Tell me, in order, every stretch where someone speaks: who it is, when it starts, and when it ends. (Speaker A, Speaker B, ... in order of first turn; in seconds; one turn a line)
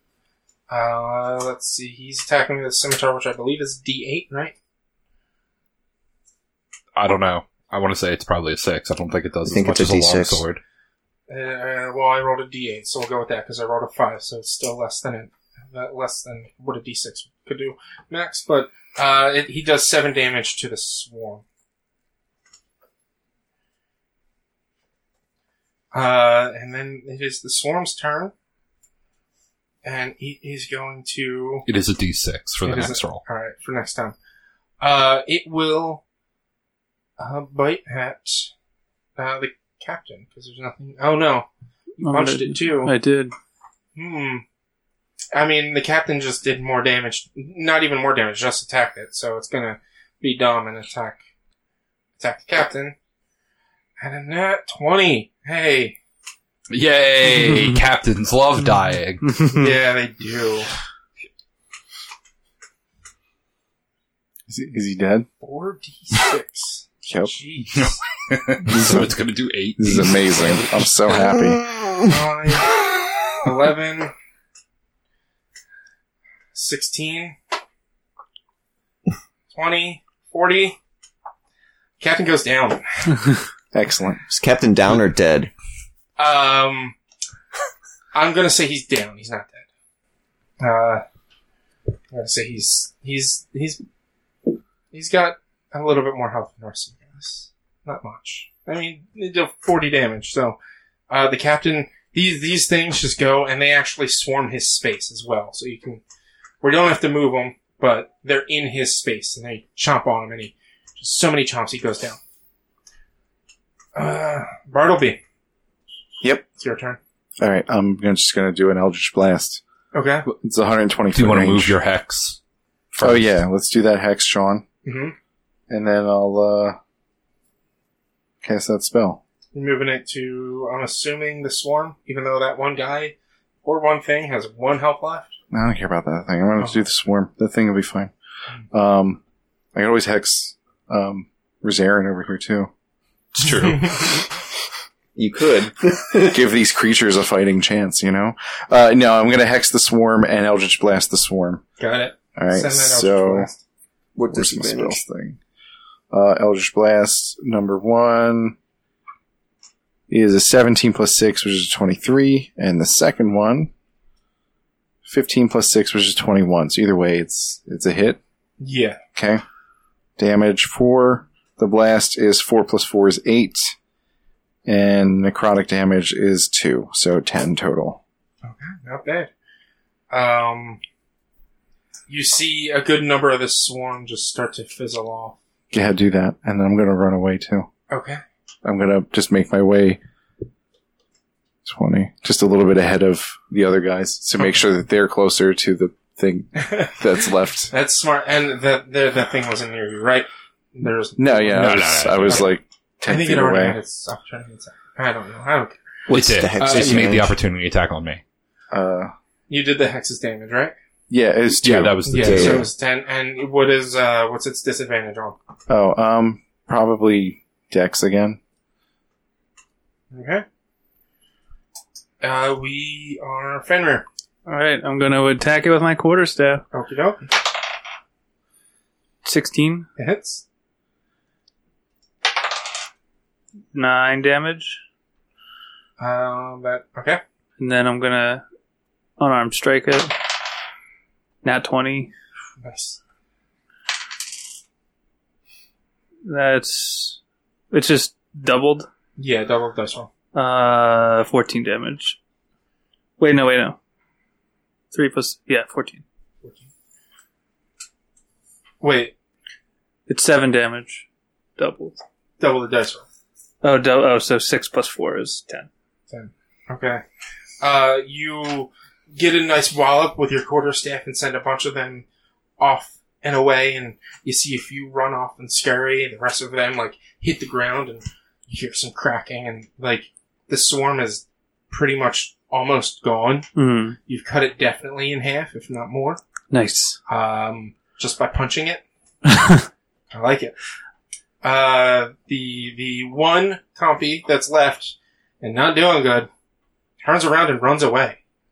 Speaker A: 0.7-4.6
Speaker B: 7.0-10.6
Speaker C: 9.5-10.4
Speaker A: 11.3-21.4
Speaker A: 25.9-28.3
Speaker A: 29.8-31.7
Speaker B: 31.7-33.2
Speaker A: 32.6-34.1
Speaker A: 34.8-36.0
Speaker A: 37.2-38.5
Speaker A: 39.2-41.5
Speaker A: 42.0-43.0
Speaker D: 42.0-43.3
Speaker A: 44.0-44.4
Speaker A: 45.3-51.2
Speaker A: 52.2-53.0
Speaker A: 54.0-56.0
Speaker B: 56.7-59.4
Speaker D: 59.3-59.7
Speaker A: 59.5-60.7
Speaker E: 64.5-65.3
Speaker A: 65.4-68.0
Speaker E: 67.0-67.3
Speaker B: 67.7-71.4
Speaker E: 68.7-69.0
Speaker E: 69.8-71.6
Speaker A: 72.1-72.8
Speaker A: 73.4-74.1
Speaker A: 76.5-77.4
Speaker A: 79.5-80.8
Speaker A: 82.0-82.8
Speaker E: 83.7-84.2
Speaker C: 84.3-85.5
Speaker A: 86.2-87.0
Speaker A: 88.1-89.7
Speaker A: 90.6-91.0
Speaker A: 92.1-93.8
Speaker A: 94.9-100.6
Speaker A: 101.1-106.0
Speaker A: 106.6-112.2
Speaker A: 114.0-115.2
Speaker E: 116.2-116.5
Speaker A: 116.6-117.0
Speaker E: 117.4-119.6
Speaker A: 119.9-120.3
Speaker E: 120.4-121.8
Speaker B: 121.2-122.4
Speaker B: 123.0-123.3
Speaker E: 123.0-124.7
Speaker A: 124.8-125.2
Speaker E: 125.7-126.8
Speaker E: 128.4-129.2
Speaker A: 129.5-135.4
Speaker E: 135.5-138.1
Speaker E: 138.7-139.2
Speaker E: 139.7-142.7
Speaker B: 143.3-144.2
Speaker A: 143.6-144.1
Speaker C: 145.2-146.4
Speaker E: 146.3-151.6
Speaker A: 151.8-153.6
Speaker E: 152.4-153.5
Speaker C: 154.2-155.0
Speaker E: 154.3-155.4
Speaker E: 156.1-158.6
Speaker E: 160.1-163.7
Speaker E: 165.1-168.2
Speaker A: 168.6-169.0
Speaker E: 169.2-169.4
Speaker E: 170.2-173.7
Speaker E: 174.7-178.0
Speaker A: 178.4-179.3
Speaker A: 180.1-180.8
Speaker A: 182.1-185.4
Speaker E: 185.7-187.7
Speaker A: 187.9-188.2
Speaker E: 188.6-190.0
Speaker E: 191.6-197.7
Speaker A: 196.6-197.0
Speaker A: 197.7-202.5
Speaker E: 201.2-203.8
Speaker B: 201.5-202.5
Speaker A: 203.1-205.8
Speaker C: 206.1-207.3
Speaker B: 206.1-208.2
Speaker A: 206.6-207.1
Speaker E: 208.7-209.1
Speaker A: 209.5-210.8
Speaker E: 211.1-212.7
Speaker B: 211.6-212.7
Speaker A: 212.1-215.4
Speaker C: 212.3-212.6
Speaker E: 215.7-218.4
Speaker A: 220.1-220.4
Speaker A: 222.2-224.1
Speaker D: 224.5-226.7
Speaker A: 226.7-227.3
Speaker D: 229.2-229.9
Speaker A: 230.0-230.4
Speaker D: 233.7-234.8
Speaker A: 236.0-237.2
Speaker D: 237.6-238.4
Speaker D: 239.2-240.2
Speaker D: 241.4-242.1
Speaker A: 242.6-243.0
Speaker D: 246.2-247.2
Speaker D: 247.7-248.9
Speaker A: 249.2-250.1
Speaker D: 250.3-252.2
Speaker D: 253.2-253.8
Speaker D: 254.9-256.0
Speaker A: 256.4-256.7
Speaker A: 258.8-259.1
Speaker D: 260.1-261.1
Speaker D: 261.6-262.0
Speaker A: 262.4-263.1
Speaker D: 263.6-265.7
Speaker A: 266.1-267.0
Speaker A: 267.6-272.1
Speaker A: 272.6-283.5
Speaker D: 283.6-284.0
Speaker A: 284.1-286.2
Speaker D: 286.5-287.0
Speaker A: 287.1-288.8
Speaker D: 289.3-289.6
Speaker A: 290.1-290.5
Speaker A: 291.4-296.3
Speaker A: 297.0-298.2